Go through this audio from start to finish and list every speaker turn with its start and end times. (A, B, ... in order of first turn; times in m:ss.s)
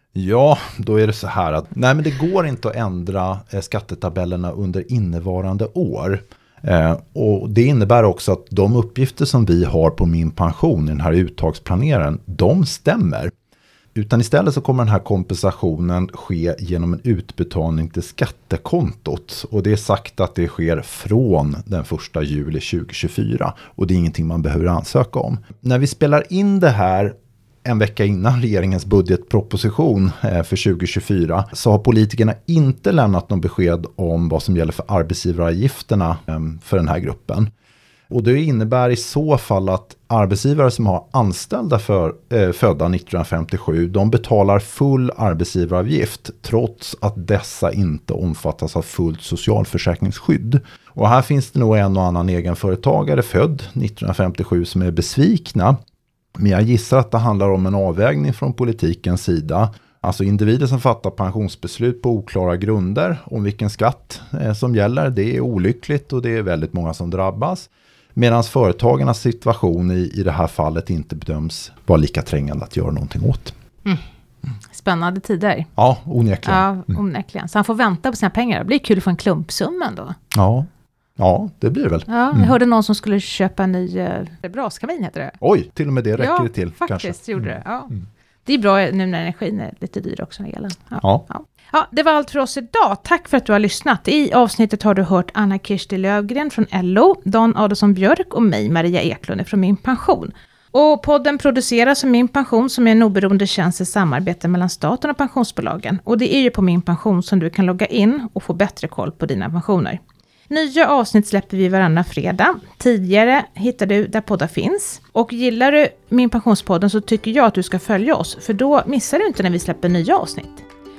0:00.2-0:13.3 A
0:14.0-0:37.5 A
0:38.1-0:55.8 A
0:56.4-1:13.6 A
1:14.7-1:15.7 B
1:15.8-1:16.7 A
1:16.4-1:20.2 B
1:20.3-1:22.5 A
1:22.1-1:25.4 B
1:25.4-1:27.5 A
1:26.2-1:27.9 B
1:28.5-2:00.6 B